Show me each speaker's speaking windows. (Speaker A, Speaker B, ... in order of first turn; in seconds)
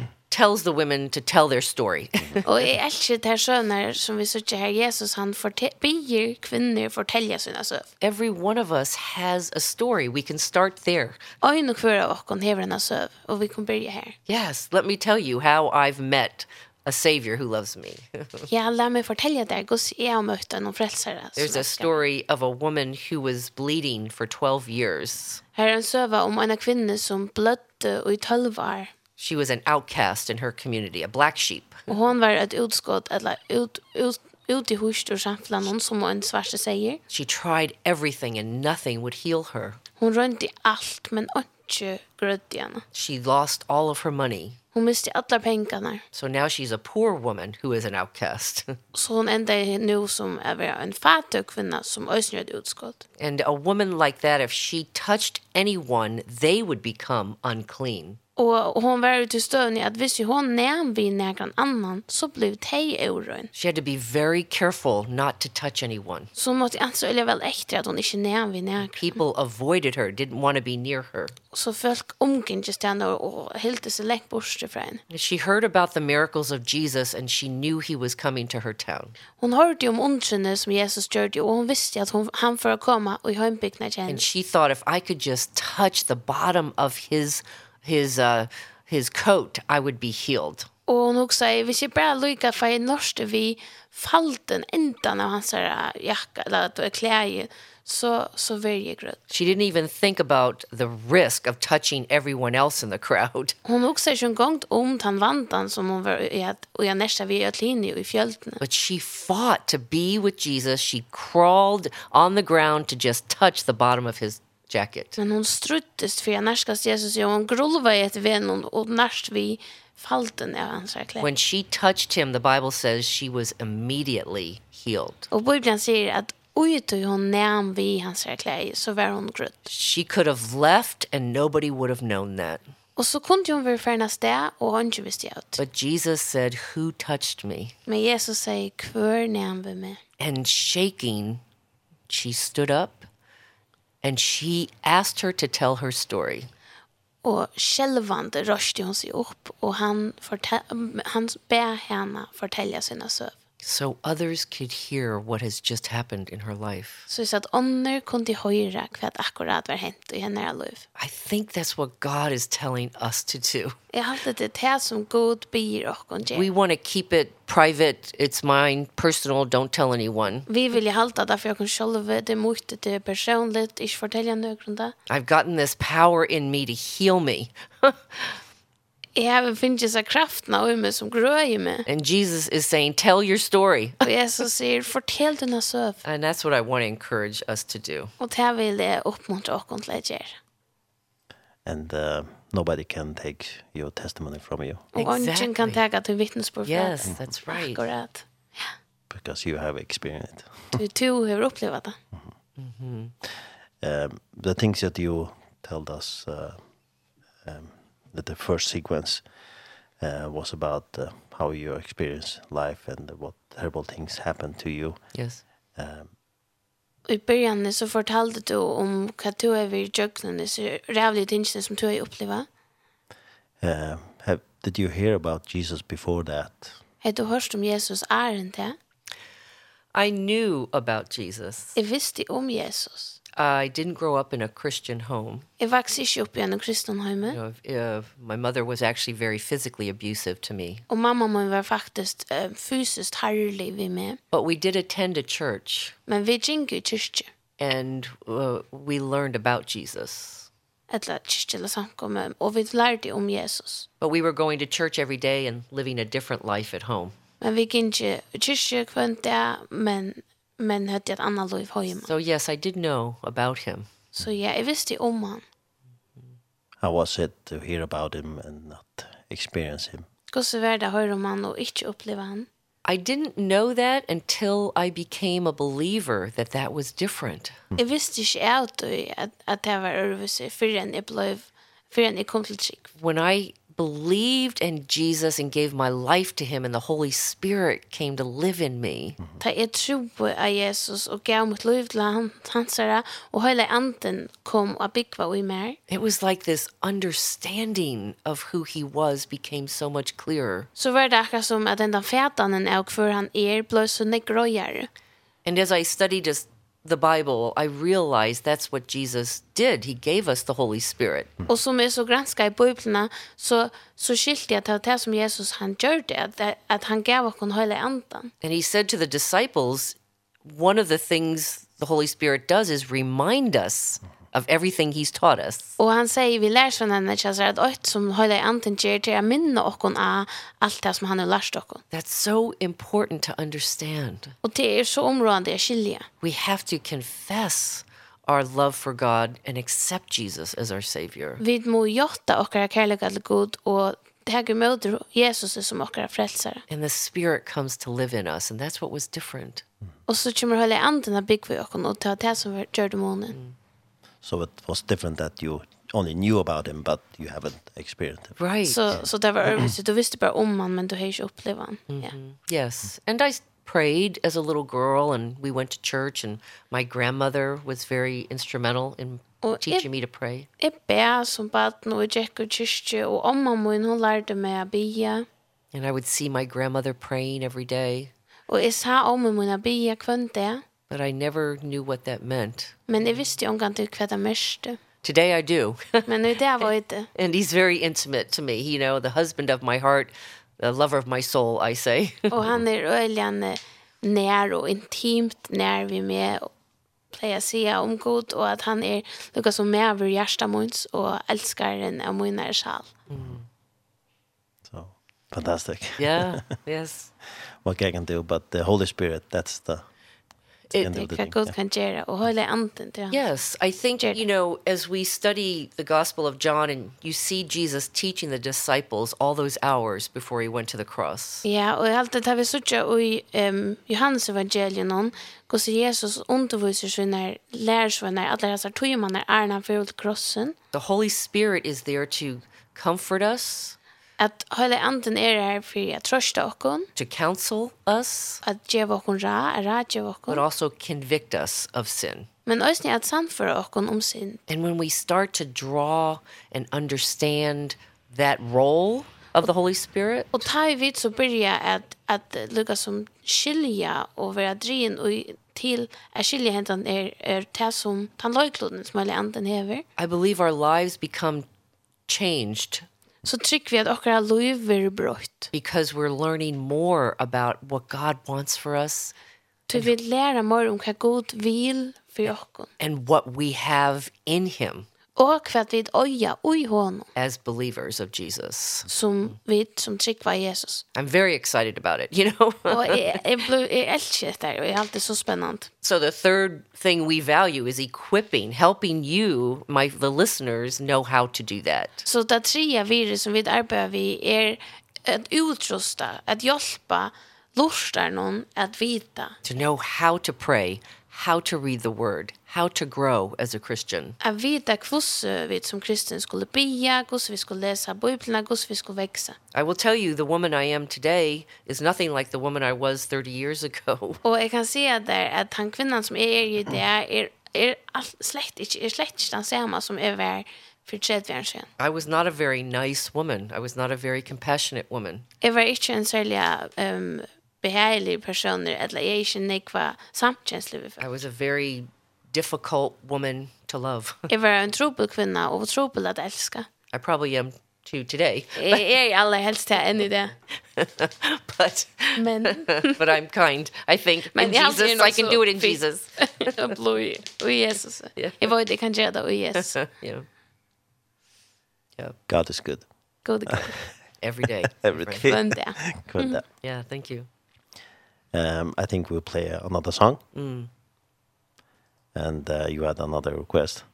Speaker A: 0.3-2.6, 8.0-11.2, 14.3-18.5, 21.4-25.4, 29.2-31.9, 37.1-39.8, 42.9-44.6, 46.1-48.8, 53.2-58.2, 63.5-66.3, 68.8-71.3, 75.1-79.2, 84.1-90.7, 99.3-103.5, 108.6-115.1, 121.2-125.3, 129.7-132.6, 135.6-137.7, 140.2-141.4, 142.1-143.1, 144.0-146.5, 153.6-157.1, 161.0-163.8, 166.3-170.5, 175.1-178.4, 181.9-184.0, 186.0-188.1, 194.9-195.8, 196.7-197.9, 202.6-203.1, 215.1-215.4, 229.9-231.7, 233.4-235.5, 237.3-240.8, 244.3-245.9, 247.6-250.5, 254.0-257.1, 262.0-263.9, 272.8-277.6, 283.0-289.2, 295.9-300.7, 305.4-311.3, 318.4-325.8, 331.9-334.3, 336.2-341.4, 346.7-349.6, 358.4-358.8, 361.9-370.5, 375.7-378.1, 380.9-382.9, 385.0-386.1, 387.1-392.3, 403.1-403.5, 406.0-407.1, 413.1-421.4, 430.7-433.8, 436.9-438.4, 440.3-442.3, 444.5-450.4, 460.0-461.4, 462.1-462.9, 465.5-469.1, 472.8-474.9, 477.1-478.9, 480.9-483.2, 485.8-492.0, 499.4-504.2, 509.5-514.2, 521.8-525.2, 531.0-534.3, 536.9-538.8, 540.8-546.1, 549.6-550.3, 554.2-555.3, 556.6-557.3, 560.3-560.7
Speaker B: 2.4-7.9, 11.4-14.1, 18.5-22.0, 25.5-28.9, 31.9-37.0, 40.0-42.8, 44.7-46.0, 48.9-53.0, 58.4-63.5, 66.3-69.2, 71.5-75.0, 79.4-84.2, 90.9-99.2, 103.6-108.6, 115.2-121.3, 125.3-129.7, 133.0-135.6, 137.9-140.0, 147.2-153.3, 157.1-160.8, 163.9-166.5, 170.5-174.9, 179.1-181.8, 184.0-186.0, 188.2-190.3, 194.9-198.7, 200.8-202.0, 217.1-222.5, 227.0-228.8, 231.8-233.2, 235.6-237.4, 240.9-244.2, 246.1-247.3, 250.9-253.8, 257.4-262.1, 264.1-265.4, 270.3-272.5, 277.8-282.8, 289.4-295.8, 300.8-304.9, 311.5-318.3, 325.8-331.8, 334.4-336.1, 341.4-346.6, 350.1-353.4, 358.7-362.1, 369.4-369.8, 370.6-375.2, 378.5-380.6, 382.9-384.8, 386.1-387.1, 392.3-396.5, 397.1-402.9, 410.8-413.2, 421.4-430.5, 434.2-436.9, 438.4-440.4, 442.5-444.4, 450.3-459.8, 463.2-465.5, 469.7-472.7, 475.1-477.1, 478.9-480.8, 482.7-485.7, 492.0-499.4, 504.2-509.4, 514.2-521.7, 525.4-531.0, 534.3-536.7, 538.6-540.3, 542.1-543.0, 544.3-549.8, 553.2-553.8, 555.3-556.4
Speaker C: 191.6-194.9, 199.1-200.8, 203.3-206.6, 207.4-209.2, 210.0-215.1, 215.7-216.1, 223.6-226.8, 266.8-270.1, 354.2-359.7, 404.6-406.4, 407.3-409.9, 410.7-411.6, 552.3-552.9, 554.8-556.4, 558.3-560.2, 562.1-563.9